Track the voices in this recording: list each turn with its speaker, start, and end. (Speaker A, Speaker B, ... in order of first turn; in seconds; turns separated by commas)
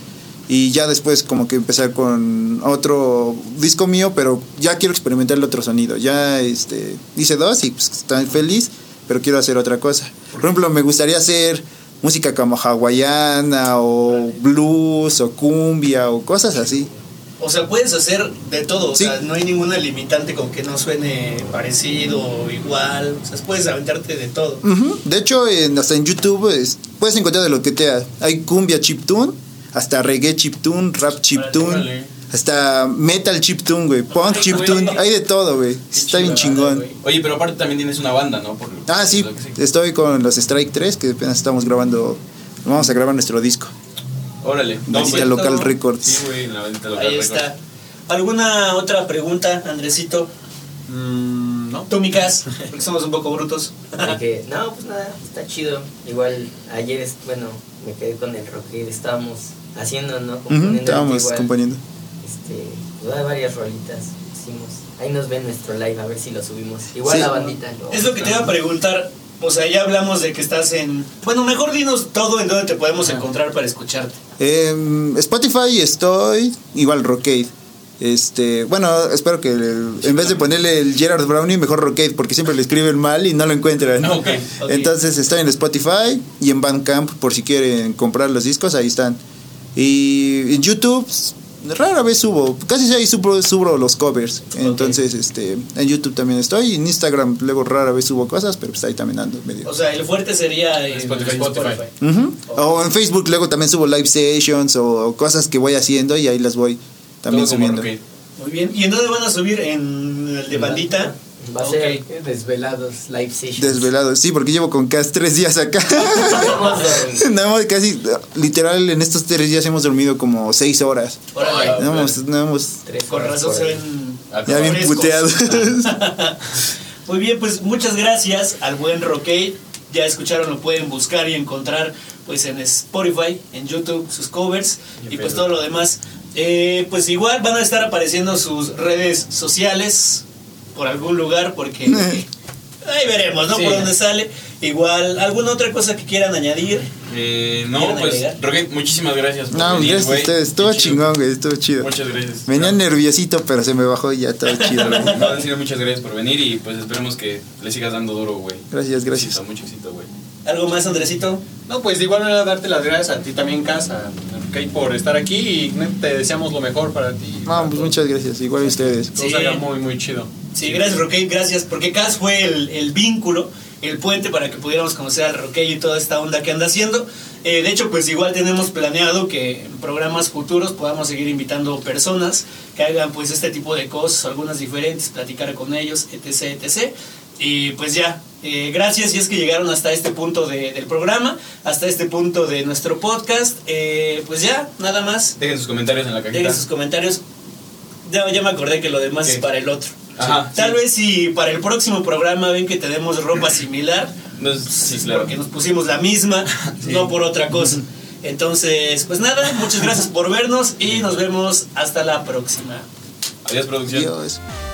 Speaker A: 0.5-16.9, Speaker B: 17.4-24.6, Speaker A: 24.6-36.9, Speaker C: 31.4-32.1, Speaker B: 34.2-34.9, Speaker C: 34.3-35.0, Speaker D: 35.9-36.9, Speaker C: 36.3-39.6, Speaker A: 38.9-43.7, Speaker C: 44.4-47.5, Speaker A: 44.9-46.2, Speaker B: 44.9-45.4, Speaker B: 46.9-47.6, Speaker B: 48.1-50.3, Speaker D: 50.9-51.9, Speaker B: 51.9-54.2, Speaker E: 54.0-61.5, Speaker A: 60.5-61.8, Speaker E: 62.2-68.3, Speaker A: 67.0-67.5, Speaker B: 67.9-74.2, Speaker A: 74.4-89.2, Speaker C: 84.0-84.6, Speaker B: 84.6-84.9, Speaker A: 89.7-99.7, Speaker B: 94.6-95.0, Speaker B: 99.6-101.9, Speaker D: 100.9-101.8, Speaker A: 102.0-107.9, Speaker B: 102.5-102.8, Speaker C: 107.3-108.0, Speaker B: 108.4-112.0, Speaker E: 110.5-113.9, Speaker A: 113.6-122.8, Speaker E: 116.0-117.3, Speaker B: 121.3-121.8, Speaker C: 121.3-122.2, Speaker E: 122.8-123.8, Speaker B: 123.1-126.4, Speaker C: 124.3-125.0, Speaker A: 124.5-126.0, Speaker B: 127.0-140.2, Speaker B: 140.7-142.2, Speaker A: 141.8-142.2, Speaker B: 142.8-146.9, Speaker D: 143.5-143.9, Speaker C: 147.1-151.1, Speaker B: 147.8-148.4, Speaker A: 149.5-151.9, Speaker C: 151.8-152.8, Speaker A: 152.5-155.2, Speaker B: 154.5-155.4, Speaker C: 154.9-160.1, Speaker A: 158.7-159.4, Speaker B: 160.4-161.4, Speaker D: 161.7-168.0, Speaker A: 167.4-169.2, Speaker D: 169.1-171.0, Speaker B: 169.2-169.6, Speaker B: 170.5-195.3, Speaker C: 195.4-196.6, Speaker B: 196.3-197.2, Speaker B: 198.0-204.1, Speaker C: 200.1-200.8, Speaker C: 204.4-205.3, Speaker B: 204.7-212.9, Speaker C: 206.8-207.1, Speaker C: 213.4-214.1, Speaker A: 213.9-214.4